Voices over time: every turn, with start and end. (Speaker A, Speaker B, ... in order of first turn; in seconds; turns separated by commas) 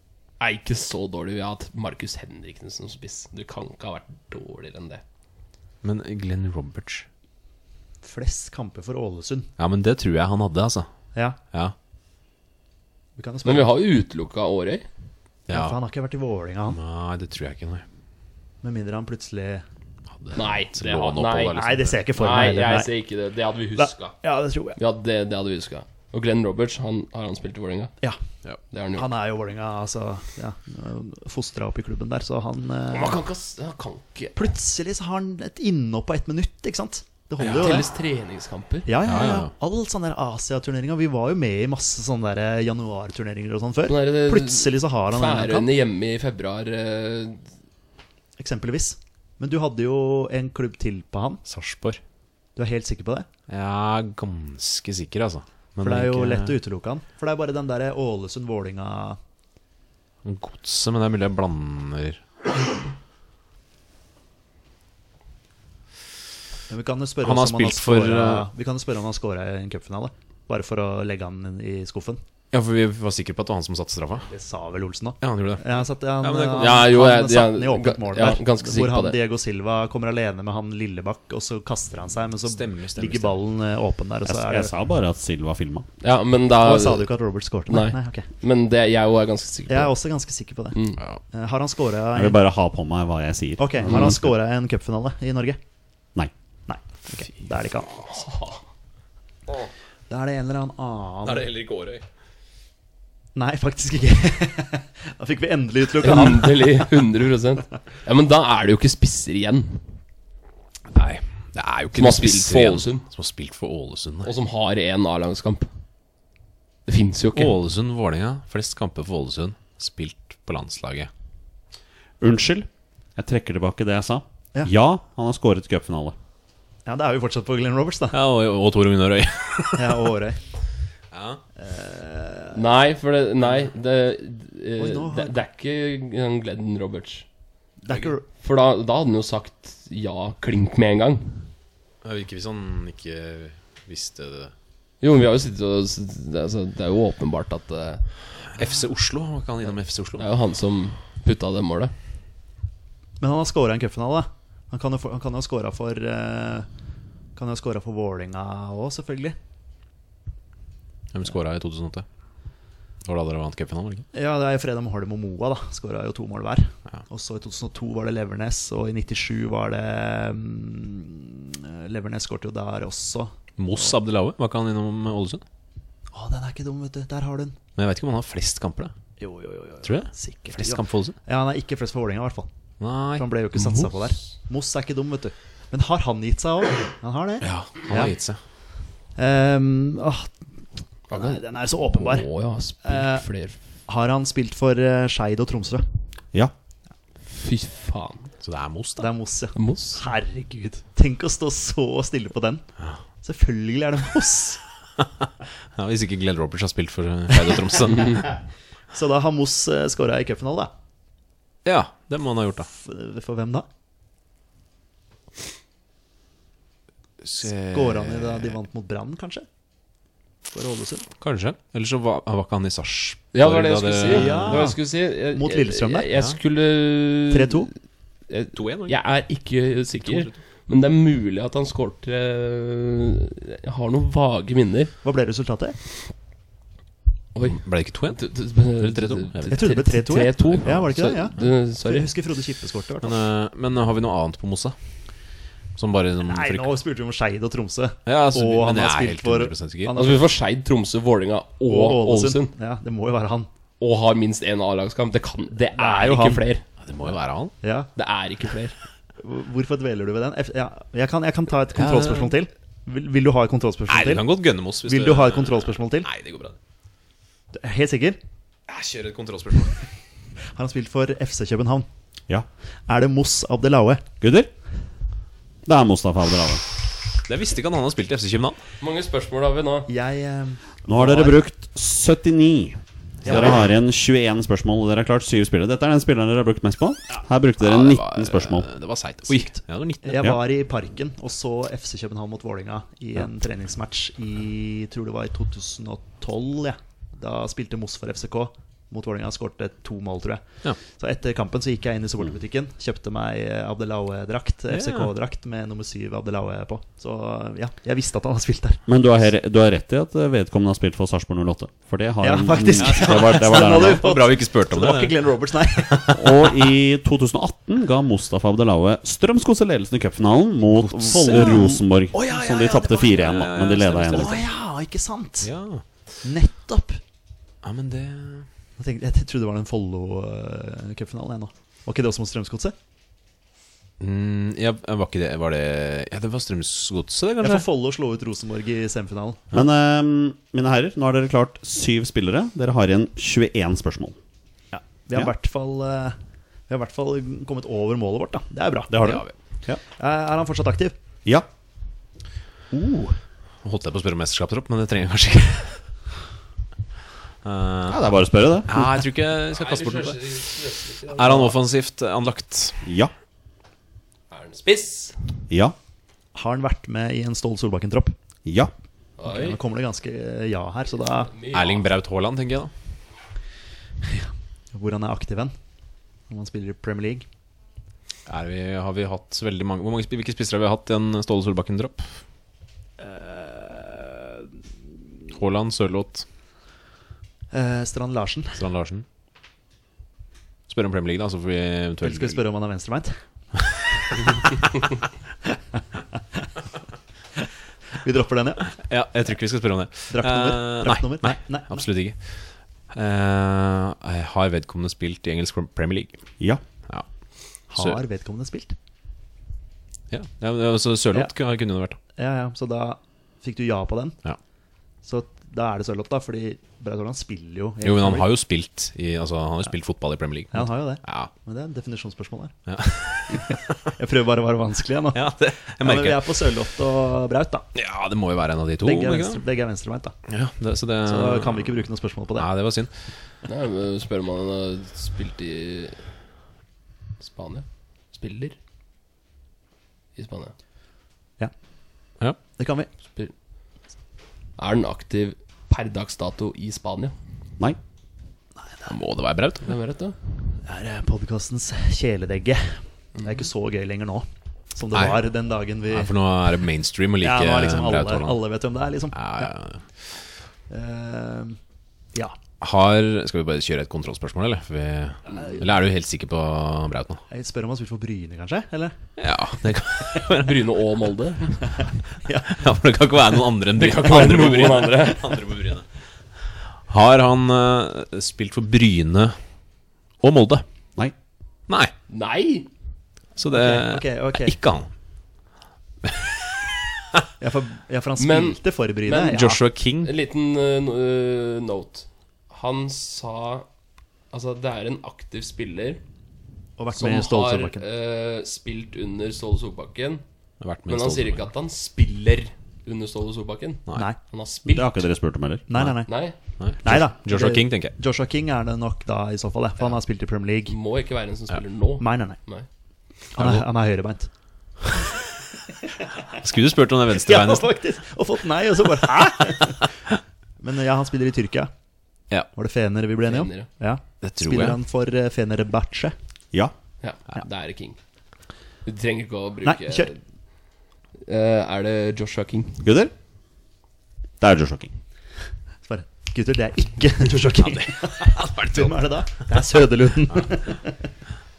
Speaker A: 0.4-5.0, Speaker B: 5.8-7.0, Speaker C: 8.0-9.5, Speaker B: 9.6-10.9, Speaker C: 13.2-13.7, Speaker A: 13.4-14.8, Speaker B: 15.5-15.8, Speaker C: 15.5-16.8, Speaker B: 16.7-17.8, Speaker C: 18.6-19.6, Speaker B: 20.1-22.0, Speaker A: 20.3-21.6, Speaker C: 21.5-22.9, Speaker A: 22.1-24.2, Speaker C: 23.8-24.8, Speaker A: 24.8-27.9, Speaker A: 28.7-29.1, Speaker C: 28.9-33.2, Speaker A: 32.9-34.4, Speaker C: 34.3-37.9, Speaker B: 37.4-37.7, Speaker A: 37.4-38.9, Speaker C: 38.9-45.7, Speaker B: 39.0-39.5, Speaker A: 43.9-47.4, Speaker C: 48.4-51.4, Speaker B: 51.5-52.0, Speaker C: 52.5-53.3, Speaker B: 53.5-56.6, Speaker C: 55.8-59.2, Speaker B: 60.2-62.2, Speaker C: 66.7-72.2, Speaker B: 67.2-68.5, Speaker B: 72.5-74.3, Speaker C: 74.3-84.7, Speaker B: 75.2-76.8, Speaker A: 76.5-79.2, Speaker B: 82.4-83.4, Speaker D: 84.2-85.9, Speaker A: 86.0-87.2, Speaker C: 86.6-88.3, Speaker A: 87.7-89.9, Speaker C: 89.7-90.8, Speaker A: 90.7-91.0, Speaker C: 91.3-92.4, Speaker D: 92.1-94.2, Speaker C: 93.6-95.6, Speaker C: 96.7-98.1, Speaker A: 98.1-98.6, Speaker C: 100.1-101.5, Speaker B: 101.2-102.0, Speaker C: 103.3-106.9, Speaker A: 106.0-109.8, Speaker B: 110.9-114.3, Speaker A: 111.9-113.0, Speaker A: 114.2-115.7, Speaker A: 116.8-117.6, Speaker B: 117.3-121.1, Speaker D: 122.2-126.2, Speaker C: 126.8-128.2, Speaker B: 128.1-130.1, Speaker C: 129.8-130.4, Speaker B: 131.1-131.4, Speaker C: 131.6-132.6, Speaker A: 132.5-137.2, Speaker C: 134.8-135.4, Speaker C: 137.8-138.2, Speaker A: 138.2-141.5, Speaker B: 142.0-144.5, Speaker A: 145.0-148.1, Speaker B: 148.5-150.3, Speaker A: 150.2-151.9, Speaker C: 153.2-156.7, Speaker C: 157.3-159.3, Speaker B: 161.1-162.0, Speaker B: 163.0-164.1, Speaker C: 164.1-173.9, Speaker B: 173.6-175.4, Speaker C: 176.1-177.6, Speaker B: 177.8-178.9, Speaker C: 179.2-182.5, Speaker B: 179.8-181.2, Speaker B: 182.8-183.2, Speaker C: 183.2-188.1, Speaker A: 183.6-183.9, Speaker B: 187.4-188.4, Speaker C: 189.2-190.4, Speaker C: 191.1-192.3, Speaker A: 191.1-193.6, Speaker C: 192.8-193.2, Speaker C: 193.8-195.8, Speaker A: 197.2-198.3, Speaker B: 198.4-199.1, Speaker C: 199.0-202.7, Speaker A: 199.5-200.0, Speaker C: 203.2-204.6, Speaker B: 205.8-208.3, Speaker C: 208.9-210.7, Speaker B: 211.6-212.7, Speaker C: 212.7-213.7, Speaker B: 217.2-218.6, Speaker C: 217.7-219.4, Speaker C: 220.5-221.1, Speaker B: 221.2-224.7, Speaker A: 223.3-227.7, Speaker C: 224.1-226.1, Speaker C: 227.3-227.7, Speaker A: 228.3-234.9, Speaker B: 228.5-228.9, Speaker B: 230.0-230.4, Speaker C: 235.0-235.8, Speaker A: 237.3-242.1, Speaker B: 237.4-239.6, Speaker C: 239.5-243.2, Speaker B: 243.0-244.7, Speaker B: 245.8-246.7, Speaker C: 246.2-250.2, Speaker B: 248.1-249.9, Speaker A: 249.9-252.5, Speaker C: 251.7-253.5, Speaker A: 253.8-256.6, Speaker C: 255.7-256.5, Speaker B: 256.8-257.5, Speaker C: 257.6-257.9, Speaker A: 257.9-258.8, Speaker C: 259.2-264.3, Speaker B: 261.7-262.4, Speaker B: 263.9-266.6, Speaker C: 264.8-266.1, Speaker C: 267.5-268.2, Speaker B: 268.7-269.8, Speaker C: 270.5-271.9, Speaker C: 272.9-274.0, Speaker D: 274.2-274.5, Speaker D: 275.6-276.6, Speaker B: 277.2-278.6, Speaker A: 278.8-279.9, Speaker C: 279.9-281.4, Speaker D: 280.9-288.7, Speaker C: 283.2-283.6, Speaker B: 287.6-290.4, Speaker C: 290.0-308.8, Speaker B: 304.7-305.1, Speaker D: 308.9-314.0, Speaker C: 312.2-316.3, Speaker B: 312.8-316.2, Speaker D: 316.1-324.4, Speaker B: 320.9-321.7, Speaker C: 321.1-323.4, Speaker B: 323.1-324.5, Speaker C: 324.1-325.5, Speaker B: 325.4-325.8, Speaker C: 326.2-327.0, Speaker B: 327.6-328.5, Speaker C: 328.8-332.7, Speaker B: 334.0-337.7, Speaker C: 337.4-339.4, Speaker D: 339.5-344.1, Speaker C: 344.7-346.2, Speaker C: 346.7-350.9, Speaker B: 348.9-349.3, Speaker C: 352.7-353.1, Speaker B: 353.6-355.8, Speaker B: 357.4-358.1, Speaker D: 357.9-359.0, Speaker B: 358.6-360.4, Speaker A: 359.5-361.6, Speaker B: 361.1-362.8, Speaker D: 362.8-363.1, Speaker A: 364.3-365.2, Speaker D: 365.5-365.7, Speaker C: 366.3-368.1, Speaker D: 368.4-368.7, Speaker A: 369.2-369.6, Speaker C: 369.2-371.3, Speaker A: 371.2-371.9, Speaker B: 371.5-372.7, Speaker C: 374.1-375.5, Speaker C: 376.3-377.2, Speaker B: 378.3-382.2, Speaker C: 383.0-384.4, Speaker B: 385.3-386.2, Speaker C: 387.5-388.6, Speaker B: 388.6-389.0, Speaker B: 390.7-392.4, Speaker C: 392.0-393.1, Speaker C: 398.0-398.7, Speaker B: 398.8-406.2, Speaker C: 400.1-401.8, Speaker C: 407.7-408.7, Speaker B: 407.7-408.0, Speaker B: 410.1-412.0, Speaker C: 412.1-414.2, Speaker C: 415.0-418.3, Speaker B: 417.8-421.3, Speaker C: 420.5-422.5, Speaker B: 422.7-423.8, Speaker C: 424.0-427.7, Speaker B: 425.1-426.6, Speaker B: 427.7-429.4, Speaker C: 428.8-430.1, Speaker B: 430.3-432.9, Speaker C: 431.1-432.5, Speaker A: 433.5-436.1, Speaker A: 437.2-438.6, Speaker A: 440.1-440.5, Speaker C: 442.6-442.9, Speaker A: 444.6-447.1, Speaker C: 448.6-448.9, Speaker B: 448.9-449.7, Speaker A: 449.6-450.2, Speaker C: 450.6-456.1, Speaker B: 454.9-455.2, Speaker B: 455.9-458.4, Speaker C: 457.2-459.5, Speaker B: 459.1-459.8, Speaker C: 460.7-461.6, Speaker B: 462.6-467.2, Speaker C: 465.3-465.6, Speaker C: 467.3-468.9, Speaker B: 469.2-470.7, Speaker A: 470.3-471.7, Speaker C: 472.2-472.6, Speaker B: 472.4-475.9, Speaker A: 473.8-475.4, Speaker C: 474.1-474.9, Speaker B: 476.9-479.4, Speaker B: 480.2-480.6, Speaker A: 482.1-482.7, Speaker B: 483.4-484.9, Speaker C: 483.5-484.5, Speaker C: 487.4-489.6, Speaker A: 488.2-489.4, Speaker B: 489.3-490.1, Speaker A: 490.0-493.7, Speaker A: 494.3-496.0, Speaker C: 496.8-497.8, Speaker A: 496.9-500.2, Speaker B: 500.6-501.5, Speaker A: 500.9-505.0, Speaker D: 504.7-505.6, Speaker C: 505.7-506.2, Speaker A: 506.1-506.4, Speaker B: 506.6-507.9, Speaker C: 506.8-510.8, Speaker A: 510.7-512.7, Speaker C: 512.0-512.4, Speaker C: 513.3-514.3, Speaker B: 513.4-513.7, Speaker B: 516.4-517.7, Speaker C: 517.1-519.9, Speaker C: 520.6-521.7, Speaker C: 522.5-526.1, Speaker A: 523.2-523.7, Speaker B: 524.2-524.8, Speaker A: 527.0-528.0, Speaker A: 528.9-530.2, Speaker C: 529.6-530.1, Speaker A: 531.2-532.8, Speaker D: 532.8-533.1, Speaker D: 534.4-534.9, Speaker C: 535.9-541.0, Speaker B: 537.3-539.6